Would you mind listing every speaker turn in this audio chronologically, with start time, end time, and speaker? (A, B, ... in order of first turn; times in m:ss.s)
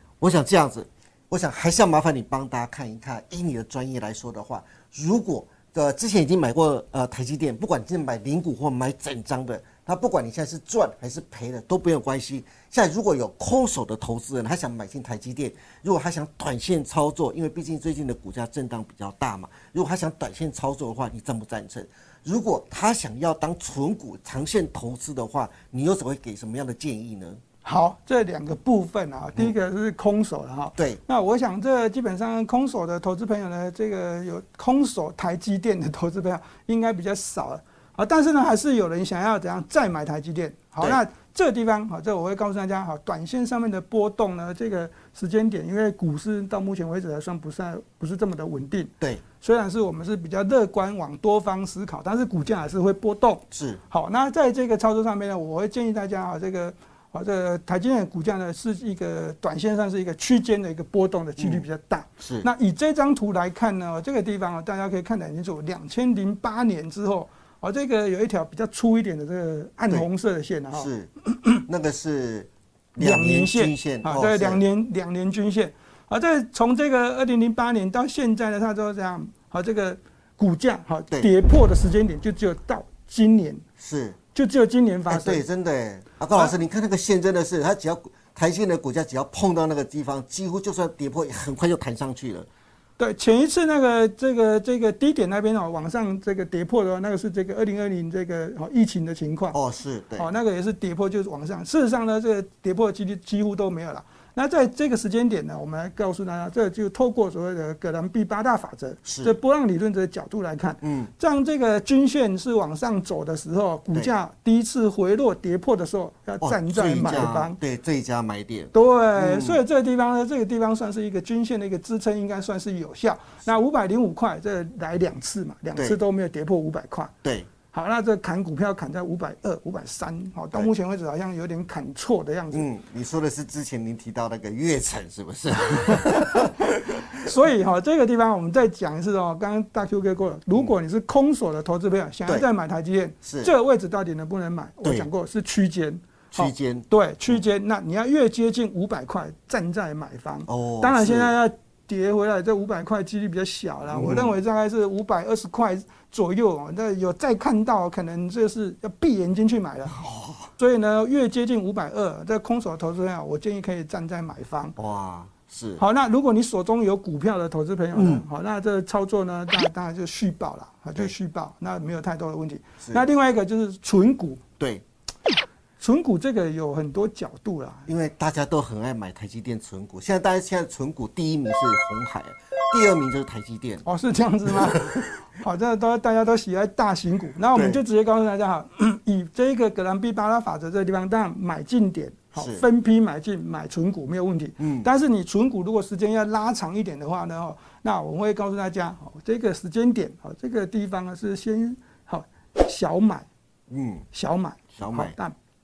0:00.2-0:27.4 A
0:27.6-1:10.9 B
0:53.5-0:53.8 A
1:01.4-1:01.7 A
1:02.2-1:02.5 A
1:10.7-1:11.1 A
1:11.7-1:14.6 A
1:13.0-1:23.6 B
1:23.8-1:24.2 A
1:24.3-1:25.4 B
1:25.1-1:32.5 A
1:33.0-1:39.6 B
1:39.5-1:40.3 A
1:40.2-1:57.6 B
1:49.1-1:49.4 A
1:50.8-1:51.1 A
1:56.4-1:59.6 A
1:58.7-2:07.1 B
2:07.2-2:07.5 A
2:07.7-2:12.7 B
2:12.5-2:17.0 A
2:17.1-2:40.0 B
2:23.2-2:23.5 A
2:24.8-2:25.1 A
2:26.3-2:27.4 A
2:30.5-2:31.4 A
2:33.9-2:34.4 A
2:39.9-2:40.5 A
2:40.6-2:44.8 B
2:44.8-2:45.8 A
2:45.8-2:54.4 B
2:47.9-2:48.2 A
2:55.8-2:57.9 B
2:57.9-3:03.8 A
3:03.8-3:23.3 B
3:04.7-3:05.0 A
3:07.5-3:07.8 A
3:12.4-3:12.6 A
3:14.6-3:14.9 A
3:23.7-3:24.0 A
3:24.1-3:25.3 B
3:24.8-3:25.2 A